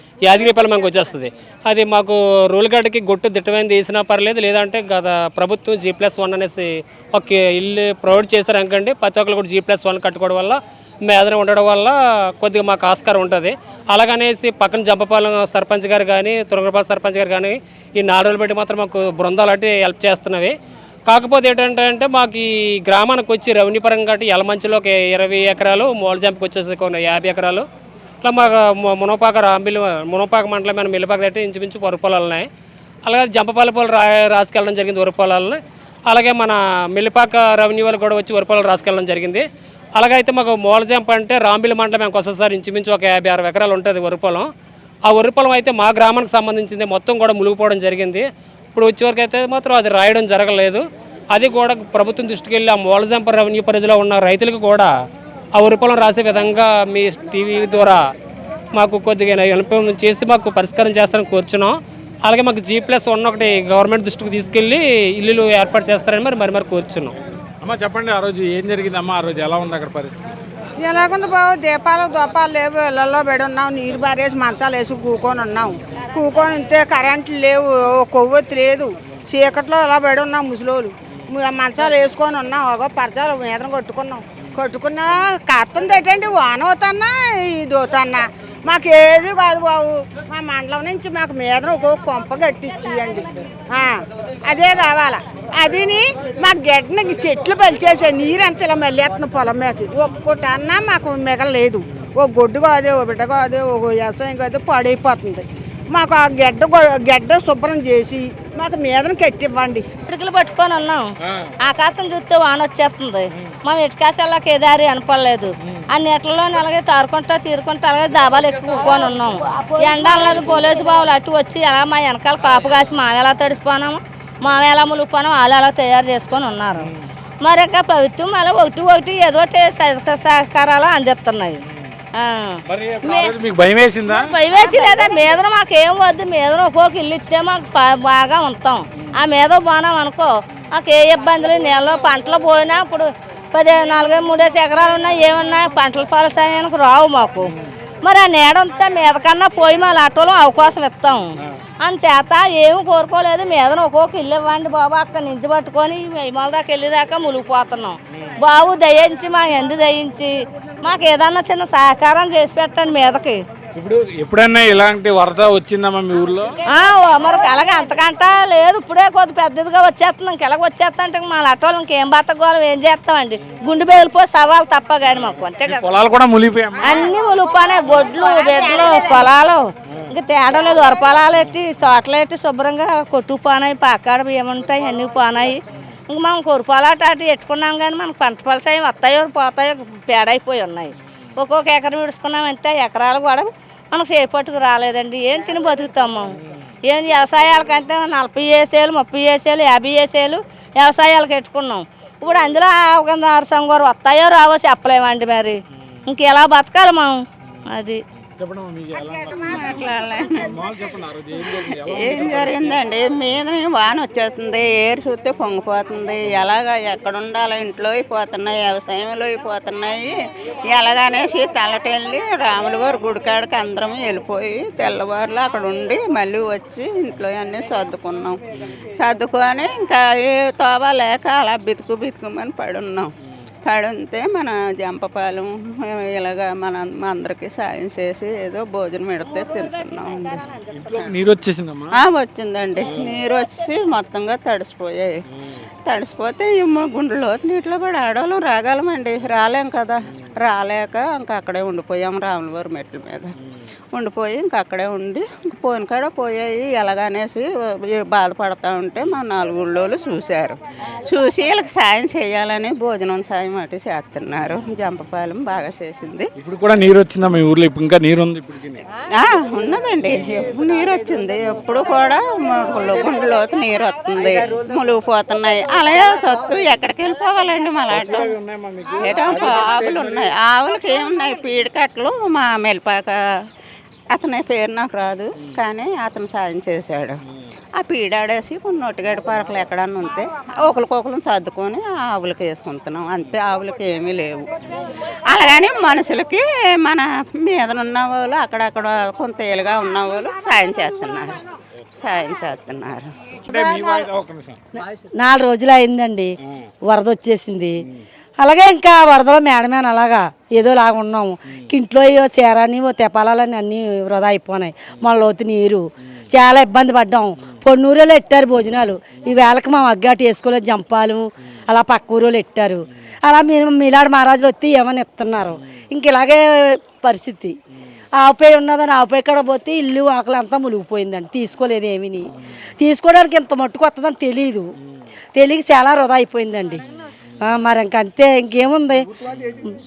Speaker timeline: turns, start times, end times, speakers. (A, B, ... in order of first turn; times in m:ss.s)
0:00.2-0:20.5 A
0:21.1-0:27.6 A
0:28.2-0:32.5 A
0:33.1-0:39.4 A
0:40.0-0:44.5 A
0:45.1-0:54.9 A
0:55.5-0:58.0 A
0:58.8-1:07.1 A
1:07.6-1:10.2 B
1:10.8-1:49.9 C
1:15.9-1:16.8 D
1:50.1-1:51.1 D
1:51.6-2:06.9 D
2:07.4-2:11.6 D
2:12.1-2:13.3 D
2:12.7-2:14.3 B
2:14.1-2:31.3 D
2:31.8-2:43.4 D
2:43.8-2:46.5 B
2:46.6-2:55.9 D
2:55.7-2:57.1 B
2:56.8-3:16.3 D
3:16.8-3:28.0 D
3:28.4-3:32.8 B
3:29.0-3:29.6 C
3:29.6-3:30.5 E
3:31.4-3:40.1 E
3:40.7-3:48.4 E
3:49.0-3:53.1 E
3:53.6-4:01.2 E
3:59.2-4:01.0 D
4:00.7-4:02.0 B
4:01.9-4:05.2 E
4:05.8-4:13.3 E
4:13.9-4:26.3 E
4:26.4-4:28.8 B
4:29.1-4:38.3 E
4:37.9-4:40.3 B
4:39.0-4:43.2 E
4:44.1-4:47.2 E
4:47.8-4:54.7 E
4:55.3-5:01.4 E
5:02.0-5:03.2 E
5:03.4-5:04.6 B
5:03.5-5:04.0 F
5:05.2-5:06.3 F
5:06.9-5:07.8 F
5:08.4-5:27.6 F
5:28.2-5:34.7 F
5:35.4-5:36.8 F
5:37.4-5:39.0 F
5:39.3-5:39.6 B